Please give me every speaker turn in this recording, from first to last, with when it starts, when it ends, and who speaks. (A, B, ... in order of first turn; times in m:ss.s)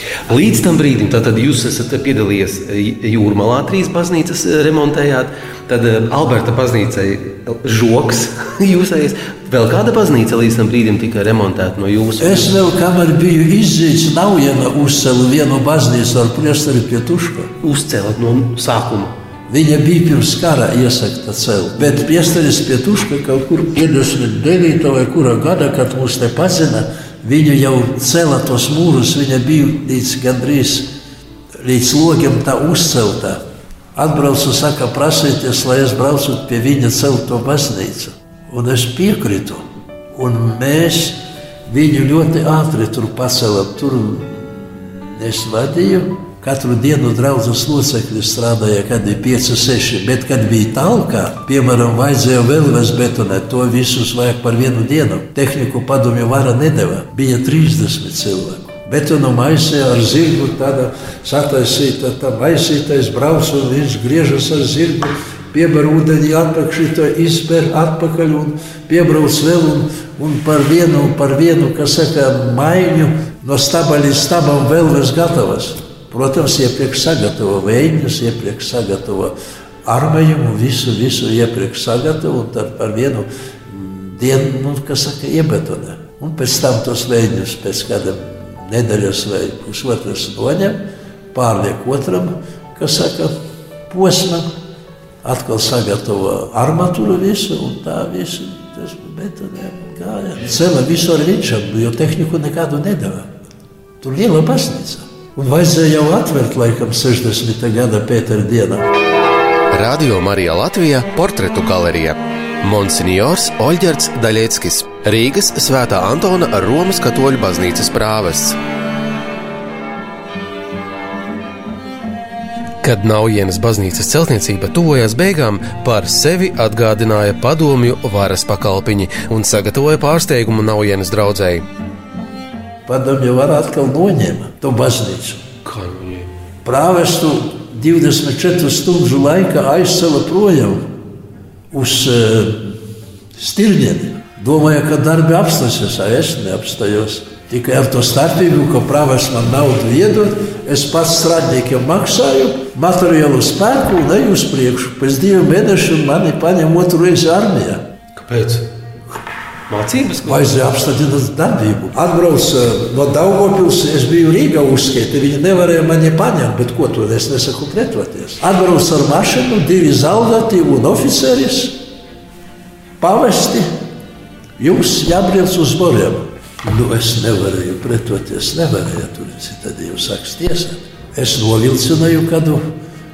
0:00.3-0:12.6 A
0:12.2-0:17.5 B
0:17.6-0:19.1 A
0:19.5-0:30.9 B
0:31.6-0:33.4 B
0:34.0-0:39.6 B
0:40.1-1:19.3 B
1:19.8-1:30.8 B
1:31.3-1:33.3 B
1:33.9-1:34.5 B
1:35.2-1:43.3 B
1:44.0-1:48.9 B
1:49.7-1:58.6 A
2:02.8-2:11.7 A
2:12.9-2:15.4 B
2:15.6-2:16.3 A
2:16.6-2:20.9 B
2:21.7-2:22.8 B
2:23.4-2:37.9 B
2:38.2-2:38.7 A
2:39.7-2:40.5 A
2:40.2-2:51.9 B
2:53.0-2:53.7 B
2:54.6-3:02.7 B